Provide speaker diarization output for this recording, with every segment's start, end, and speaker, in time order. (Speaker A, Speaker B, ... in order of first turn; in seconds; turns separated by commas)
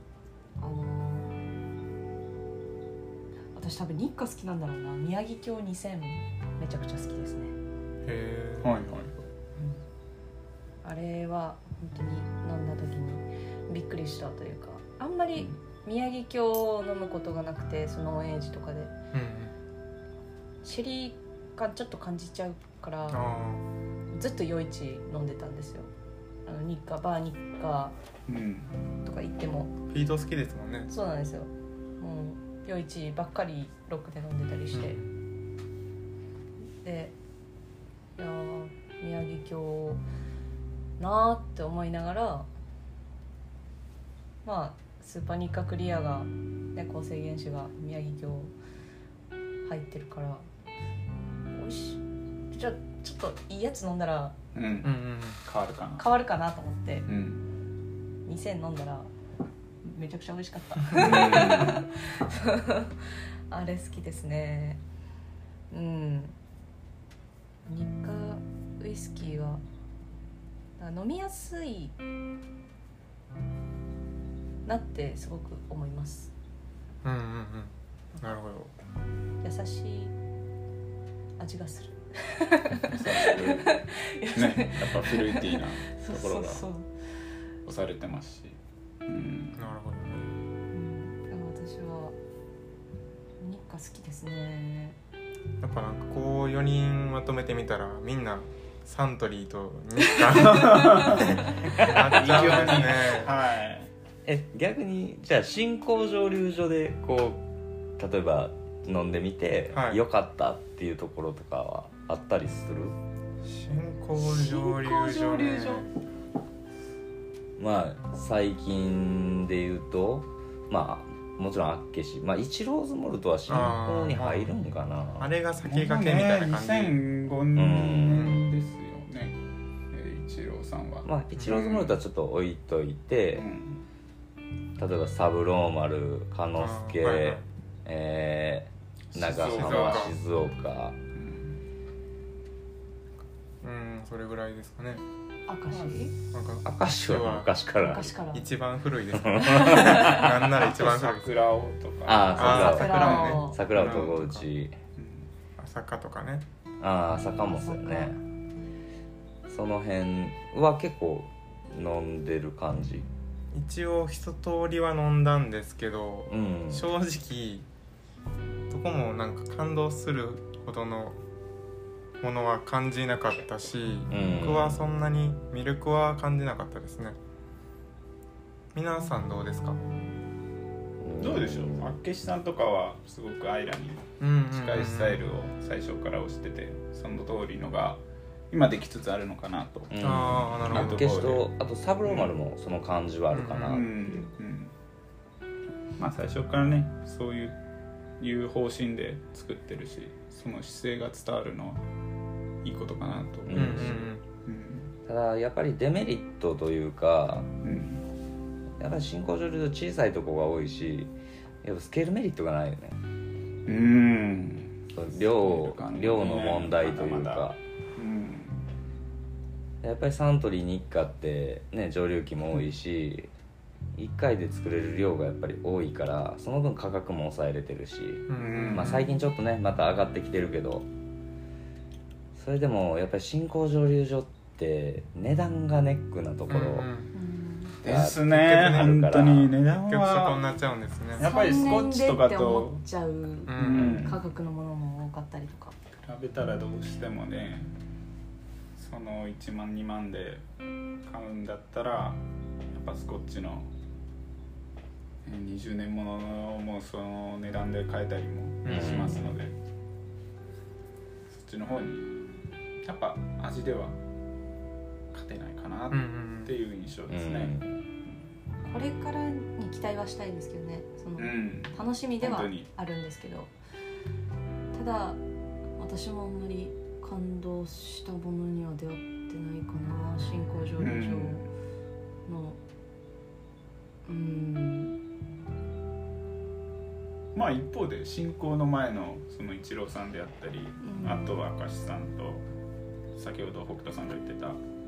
Speaker A: 0.6-1.4, Speaker A: 3.5-7.5, Speaker B: 8.0-8.7, Speaker C: 8.6-9.1, Speaker A: 10.8-18.9, Speaker B: 19.1-19.5, Speaker A: 20.6-23.2, Speaker B: 23.1-23.6, Speaker A: 24.1-25.9, Speaker A: 26.4-27.9, Speaker C: 28.3-28.7, Speaker A: 29.0-29.7, Speaker B: 29.9-30.9, Speaker A: 30.9-35.0, Speaker B: 34.7-35.1, Speaker A: 36.8-37.1, Speaker A: 38.2-40.0, Speaker A: 41.0-42.5, Speaker A: 44.4-48.5, Speaker A: 49.6-50.4, Speaker A: 51.5-54.4, Speaker C: 54.5-56.1, Speaker B: 54.8-55.4, Speaker A: 56.0-57.1, Speaker C: 57.1-57.4, Speaker A: 58.2-59.1, Speaker A: 59.8-64.8, Speaker C: 60.9-61.8, Speaker A: 65.7-66.3, Speaker A: 67.7-69.6, Speaker A: 70.8-72.0, Speaker A: 74.6-76.3, Speaker B: 77.0-78.7, Speaker A: 79.4-80.1, Speaker A: 81.4-86.9, Speaker C: 82.9-86.5, Speaker C: 87.7-89.7, Speaker B: 89.5-90.3, Speaker A: 90.7-92.1, Speaker A: 93.4-95.0, Speaker B: 95.6-103.3, Speaker C: 100.3-103.9, Speaker A: 100.3-101.9, Speaker D: 101.9-103.0, Speaker D: 104.2-107.4, Speaker D: 108.0-113.0, Speaker B: 109.7-110.0, Speaker B: 113.4-115.9, Speaker A: 114.2-115.8, Speaker D: 117.6-125.3, Speaker B: 123.5-124.5, Speaker B: 125.2-127.0, Speaker C: 125.6-129.4, Speaker D: 127.5-128.4, Speaker C: 129.9-132.0, Speaker D: 131.0-133.5, Speaker C: 133.3-133.8, Speaker D: 134.8-141.0, Speaker B: 136.6-137.4, Speaker C: 139.1-140.1, Speaker B: 139.5-140.1, Speaker C: 141.1-141.6, Speaker B: 143.6-145.0, Speaker A: 145.5-146.1, Speaker B: 146.3-147.5, Speaker D: 146.6-148.1, Speaker A: 147.8-148.4, Speaker B: 148.3-151.3, Speaker D: 149.1-150.5, Speaker A: 149.4-150.3, Speaker C: 150.5-154.2, Speaker D: 152.1-154.7, Speaker A: 152.3-153.6, Speaker B: 152.3-154.4, Speaker C: 154.9-155.3, Speaker B: 155.6-156.4, Speaker D: 156.8-158.2, Speaker A: 157.4-158.1, Speaker D: 159.5-163.1, Speaker B: 163.5-167.7, Speaker D: 166.3-166.9, Speaker B: 168.7-171.2, Speaker B: 172.2-177.2, Speaker D: 174.1-174.8, Speaker B: 178.7-179.8, Speaker D: 181.0-181.9, Speaker C: 181.2-189.9, Speaker B: 184.2-185.2, Speaker D: 189.9-193.9, Speaker B: 190.0-191.1, Speaker C: 190.6-191.4, Speaker C: 192.0-192.3, Speaker B: 193.3-193.8, Speaker C: 193.6-194.7, Speaker C: 196.0-197.6, Speaker C: 198.2-201.8, Speaker C: 202.6-204.9, Speaker D: 203.4-204.0, Speaker B: 203.5-204.2, Speaker D: 205.1-207.5, Speaker C: 207.6-208.0, Speaker D: 208.8-213.0, Speaker C: 213.7-218.7, Speaker D: 214.9-217.6, Speaker D: 219.8-223.3, Speaker D: 223.9-230.9, Speaker B: 228.3-229.0, Speaker C: 228.3-229.1, Speaker D: 232.3-236.9, Speaker B: 236.5-237.1, Speaker A: 237.1-237.8, Speaker C: 237.8-240.4, Speaker D: 237.8-239.6, Speaker B: 238.3-239.0, Speaker B: 239.7-241.3, Speaker C: 241.2-242.8, Speaker A: 241.2-245.7, Speaker B: 243.5-244.1, Speaker C: 243.5-244.2, Speaker C: 246.0-247.7, Speaker C: 248.8-250.4, Speaker C: 251.0-252.2, Speaker C: 252.7-253.7, Speaker C: 255.2-259.5, Speaker B: 258.6-259.3, Speaker D: 258.7-259.4, Speaker C: 261.3-262.1, Speaker C: 262.8-264.0, Speaker C: 265.1-268.2, Speaker B: 265.9-266.5, Speaker D: 267.1-267.7, Speaker A: 268.6-273.5, Speaker C: 271.2-272.7, Speaker A: 274.7-275.2, Speaker A: 275.8-281.4, Speaker C: 280.8-281.5, Speaker A: 282.2-282.6, Speaker A: 284.1-285.0, Speaker C: 287.3-292.4, Speaker A: 290.8-291.3, Speaker C: 293.1-294.6